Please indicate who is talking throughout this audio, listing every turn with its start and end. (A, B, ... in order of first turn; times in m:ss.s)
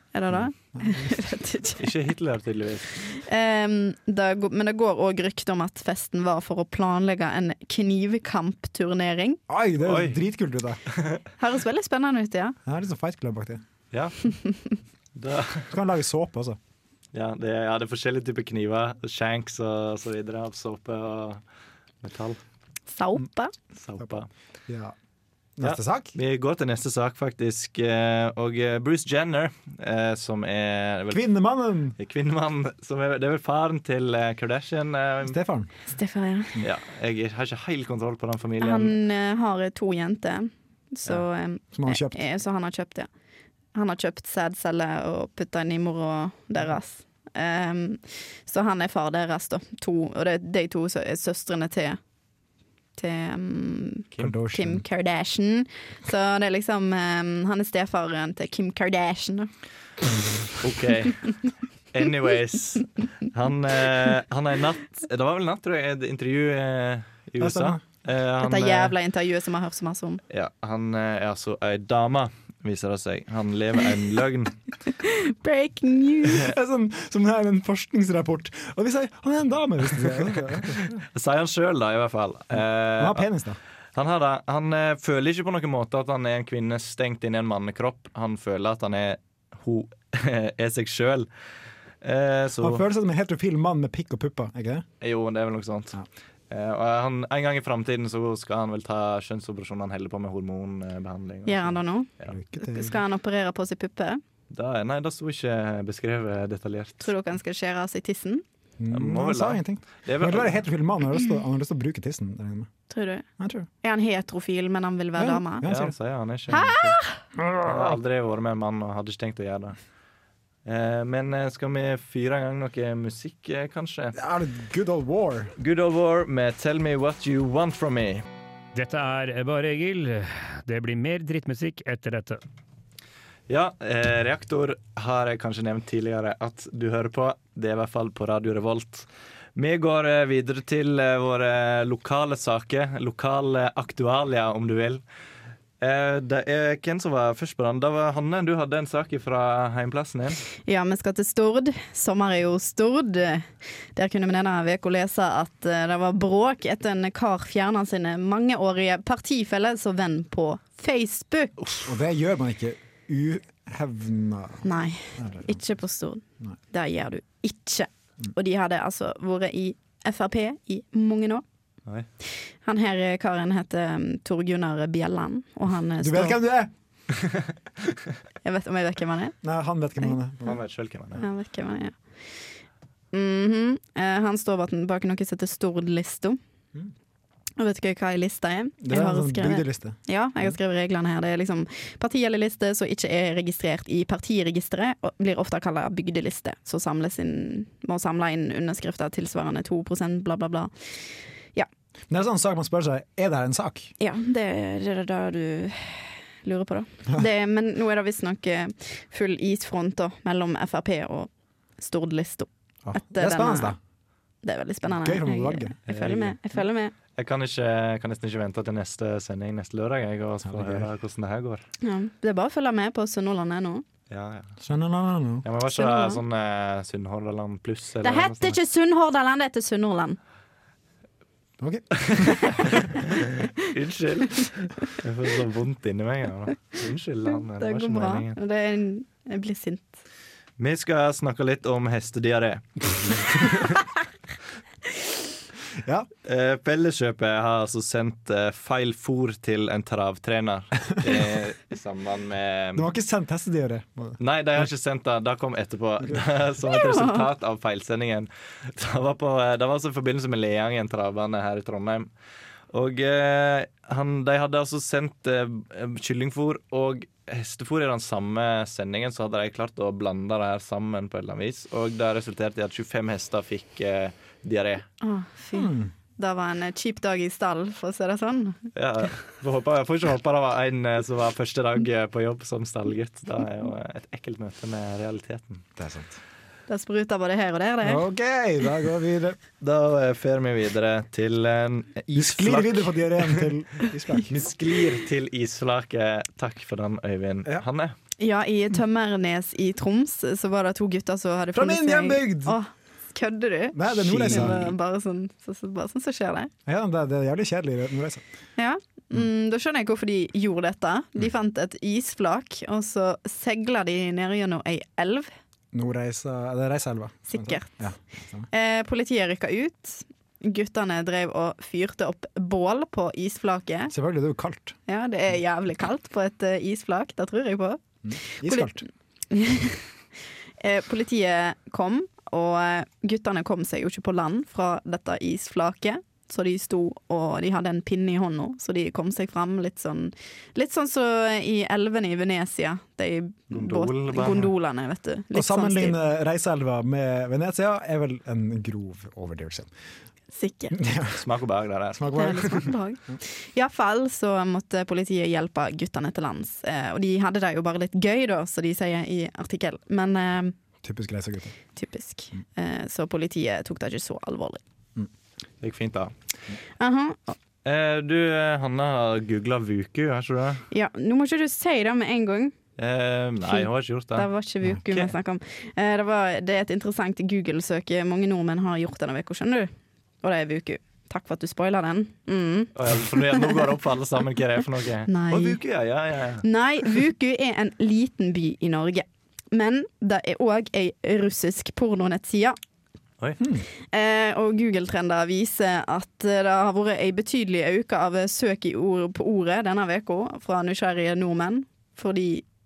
0:00.1-0:01.8 A
0:00.3-0:01.2 B
0:01.8-0:03.0 C
0:03.0-0:09.4 A
0:09.5-0:10.8 B
0:09.8-0:10.2 C
0:10.9-0:11.2 C
0:11.4-0:12.6 A
0:12.6-0:13.6 B
0:13.9-0:14.4 C
0:15.1-0:15.7 C
0:15.7-0:16.6 B
0:17.1-0:21.4 C
0:22.0-0:22.4 C
0:22.9-0:23.5 A
0:23.8-0:24.3 C
0:24.7-0:25.0 B
0:25.6-0:26.1 B
0:25.6-0:31.2 C
0:31.1-0:32.0 B
0:32.0-0:35.4 C
0:35.2-0:35.7 B
0:35.9-0:36.5 A
0:36.6-0:38.9 C
0:38.6-0:43.1 A
0:41.7-0:42.2 B
0:43.7-0:52.0 A
0:53.0-0:59.5 A
0:54.2-0:54.8 B
1:00.6-1:08.9 C
1:07.4-1:07.8 B
1:08.4-1:10.2 A
1:10.3-1:14.6 C
1:15.0-1:16.5 A
1:16.4-1:20.8 B
1:21.0-1:23.3 C
1:23.0-1:23.6 B
1:23.9-1:31.3 C
1:32.0-1:32.8 C
1:32.6-1:34.8 B
1:35.0-1:42.4 C
1:41.5-1:44.2 A
1:42.3-1:43.0 B
1:44.5-1:47.1 C
1:47.0-1:48.4 A
1:48.8-1:52.7 B
1:48.9-1:50.6 C
1:52.9-1:53.2 A
1:53.4-1:53.7 B
1:53.8-1:55.6 A
1:55.2-1:55.9 B
1:55.6-1:57.0 C
1:56.5-1:57.2 A
1:57.4-1:57.8 B
1:57.6-1:59.8 C
2:00.6-2:04.2 C
2:04.1-2:05.5 B
2:05.6-2:08.2 C
2:08.7-2:12.4 D
2:13.5-2:25.0 C
2:25.8-2:30.4 C
2:30.6-2:41.5 A
2:41.8-2:45.6 B
2:44.6-2:51.4 A
2:52.3-2:56.4 A
2:56.0-2:56.7 B
2:58.4-2:59.4 A
2:59.4-3:00.6 B
3:00.4-3:01.2 C
3:01.2-3:02.6 A
3:03.1-3:06.4 A
3:07.6-3:21.7 A
3:08.8-3:10.6 B
3:22.1-3:23.9 B
3:24.0-3:33.7 A
3:32.8-3:33.8 B
3:34.4-3:36.9 A
3:34.9-3:35.8 B
3:35.9-3:36.4 C
3:37.1-3:41.6 C
3:40.4-3:40.9 B
3:41.8-3:43.8 A
3:44.1-3:44.6 C
3:44.6-3:45.4 B
3:45.4-3:48.5 C
3:45.7-3:46.2 A
3:48.0-3:50.2 A
3:51.6-3:52.4 B
3:52.0-3:52.8 C
3:53.6-3:58.4 C
3:57.6-4:00.0 A
4:00.6-4:03.8 C
4:05.8-4:06.1 B
4:06.2-4:12.8 C
4:12.7-4:14.7 B
4:14.2-4:22.1 C
4:16.7-4:17.2 A
4:22.7-4:34.9 C
4:35.0-4:38.6 A
4:35.5-4:35.9 B
4:38.8-4:45.6 C
4:45.8-4:46.2 B
4:46.7-4:48.0 A
4:47.8-4:49.4 B
4:49.6-4:53.5 C
4:52.1-4:54.3 B
4:54.3-4:57.9 C
4:58.2-5:06.5 A
5:01.5-5:02.6 B
5:03.7-5:04.6 B
5:04.1-5:04.7 C
5:06.6-5:08.2 B
5:08.6-5:15.3 A
5:15.7-5:18.5 B
5:17.3-5:17.9 A
5:18.5-5:23.9 A
5:23.9-5:24.8 B
5:24.9-5:29.9 A
5:28.0-5:28.8 B
5:30.6-5:45.9 A
5:43.5-5:44.5 C
5:45.3-5:49.7 B
5:50.3-5:50.8 A
5:50.7-5:51.2 B
5:51.1-5:52.5 C
5:51.9-5:53.2 B
5:52.1-6:00.6 A
6:00.8-6:01.6 B
6:01.8-6:04.6 A
6:05.6-6:06.1 C
6:06.8-6:07.4 A
6:07.6-6:10.6 C
6:10.7-6:12.5 A
6:12.8-6:14.3 C
6:13.5-6:23.6 A
6:22.7-6:26.4 C
6:25.1-6:25.6 A
6:26.4-6:32.6 A
6:33.4-6:33.6 B
6:33.9-6:42.4 A